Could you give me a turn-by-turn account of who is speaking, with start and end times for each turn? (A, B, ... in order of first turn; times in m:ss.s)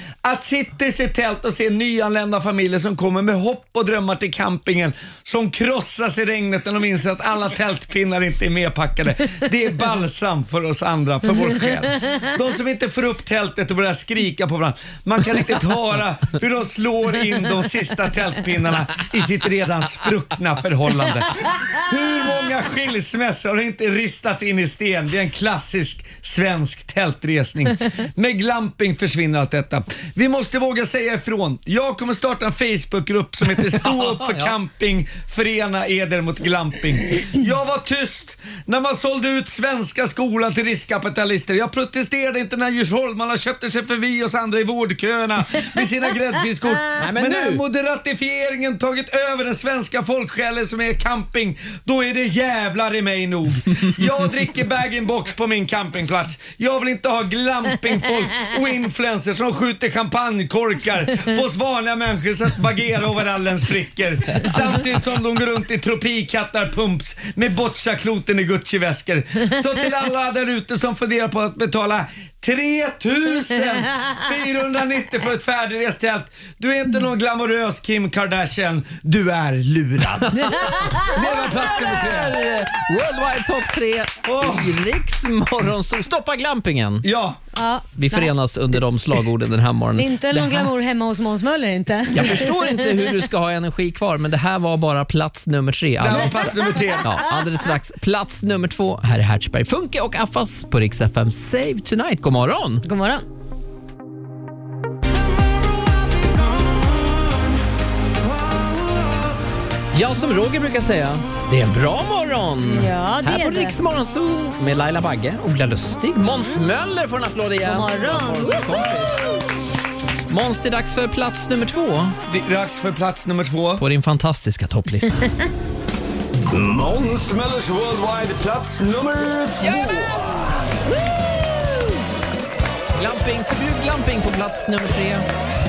0:00.2-1:22.4 A
0:33.7-0:34.6 B
0:47.0-0:47.6 B
1:20.3-1:27.0 B
1:24.2-1:24.8 A
1:27.0-1:27.4 A
1:27.6-1:28.3 C
1:28.0-1:30.7 B
1:30.0-1:32.8 C
1:32.1-1:42.8 B
1:36.0-1:37.3 A
1:36.1-1:37.2 C
1:42.8-1:43.2 C
1:49.9-1:59.3 B
1:52.6-1:53.8 C
1:57.6-1:58.9 C
2:00.3-2:02.2 B
2:02.3-2:03.8 A
2:03.8-2:05.3 B
2:06.5-2:10.4 D
2:09.6-2:10.1 B
2:13.0-2:15.3 B